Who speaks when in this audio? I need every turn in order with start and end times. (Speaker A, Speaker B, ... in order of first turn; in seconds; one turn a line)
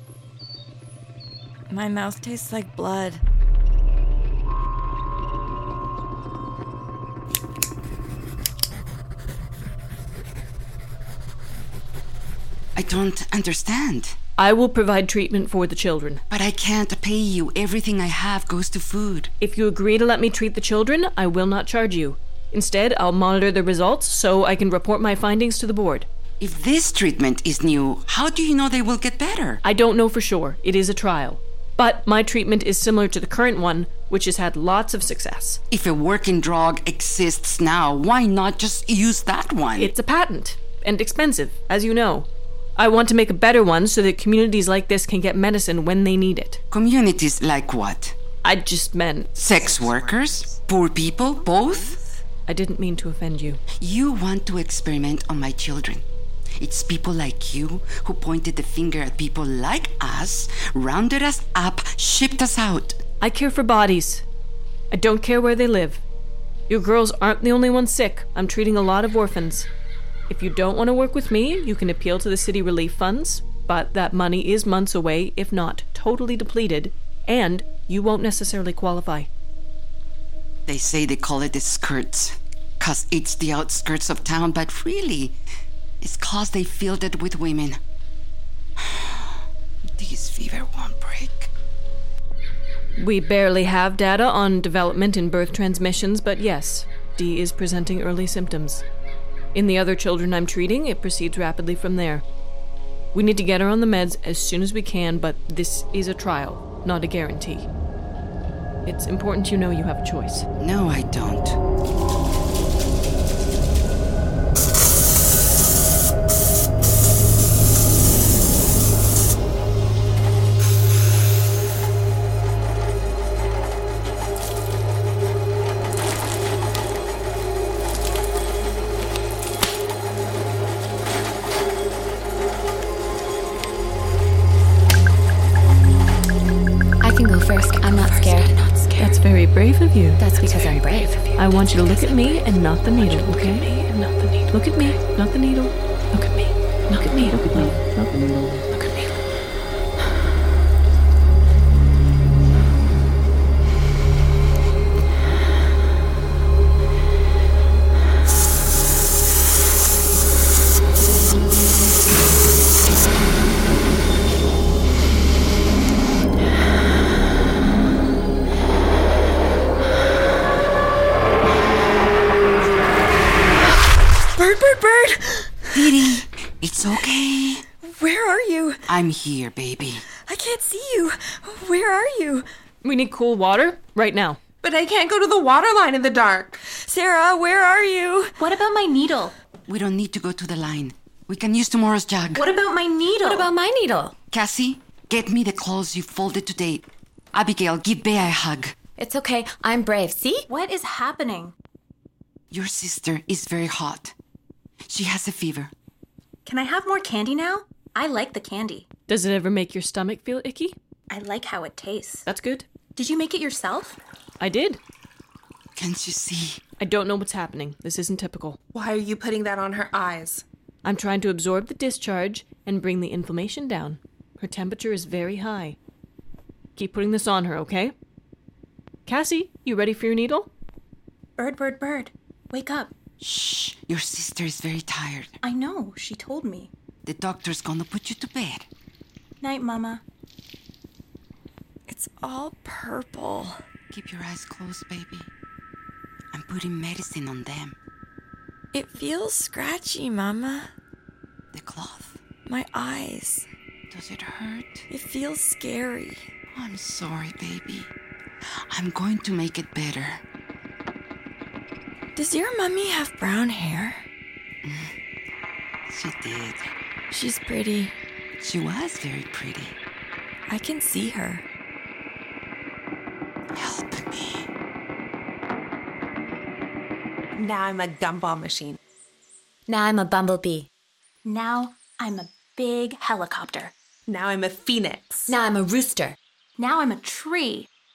Speaker A: 1.7-3.2
Speaker B: 12.8-14.2
Speaker C: 14.4-16.2
Speaker B: 16.3-19.3
Speaker C: 19.4-26.1
Speaker B: 26.4-29.6
Speaker C: 29.6-35.6
Speaker B: 35.7-39.9
Speaker C: 39.8-46.6
Speaker B: 46.7-48.2
Speaker C: 48.4-49.3
Speaker B: 49.4-52.0
Speaker D: 51.6-52.0
Speaker C: 52.5-53.6
Speaker B: 53.8-56.0
Speaker B: 56.6-63.0
Speaker C: 63.2-64.2
Speaker C: 64.9-66.0
Speaker C: 66.7-69.7
Speaker C: 70.3-79.3
Speaker B: 80.7-85.4
Speaker B: 86.0-87.8
Speaker B: 88.8-89.4
Speaker B: 90.0-91.5
Speaker C: 93.0-98.8
Speaker C: 99.5-102.2
Speaker C: 103.1-107.7
Speaker C: 108.8-110.5
Speaker B: 110.6-111.6
Speaker E: 137.0-138.7
Speaker A: 138.1-138.9
Speaker C: 139.0-140.2
Speaker E: 140.2-141.7
Speaker C: 141.3-149.1
Speaker A: 174.3-176.2
Speaker B: 175.7-177.6
Speaker A: 177.8-178.8
Speaker B: 178.9-180.0
Speaker A: 180.2-182.4
Speaker C: 182.8-184.4
Speaker D: 184.6-186.6
Speaker A: 186.7-188.3
Speaker F: 188.4-189.3
Speaker B: 189.7-192.5
Speaker F: 192.3-193.5
Speaker E: 193.2-194.1
Speaker B: 194.3-198.7
Speaker E: 199.0-200.5
Speaker F: 200.5-201.5
Speaker B: 202.5-204.1
Speaker B: 204.9-205.7
Speaker F: 206.4-208.9
Speaker C: 209.1-210.8
Speaker F: 211.1-212.2
Speaker C: 212.2-212.7
Speaker F: 212.9-214.0
Speaker C: 214.4-214.8
Speaker B: 215.8-216.6
Speaker C: 216.8-218.6
Speaker D: 218.7-220.4
Speaker C: 220.8-225.8
Speaker C: 226.8-227.9
Speaker C: 229.1-230.5
Speaker F: 231.4-232.9
Speaker B: 233.2-235.3
Speaker F: 235.4-236.7
Speaker B: 237.1-238.7
Speaker F: 239.4-240.0
Speaker A: 241.9-243.6
Speaker B: 243.9-245.3
Speaker B: 246.3-247.8
Speaker A: 248.7-250.7
Speaker B: 251.5-252.2
Speaker A: 252.5-253.5
Speaker B: 253.9-254.9
Speaker A: 254.9-256.3
Speaker B: 256.5-257.9
Speaker B: 258.7-260.2
Speaker A: 262.1-264.0
Speaker B: 264.6-264.9
Speaker B: 265.9-266.7
Speaker A: 267.1-267.9
Speaker B: 268.4-269.8
Speaker A: 270.5-271.4
Speaker B: 273.5-274.5
Speaker D: 277.3-278.8
Speaker E: 279.7-280.7
Speaker F: 281.2-283.7
Speaker D: 284.1-285.3
Speaker E: 285.3-286.2
Speaker F: 286.6-287.7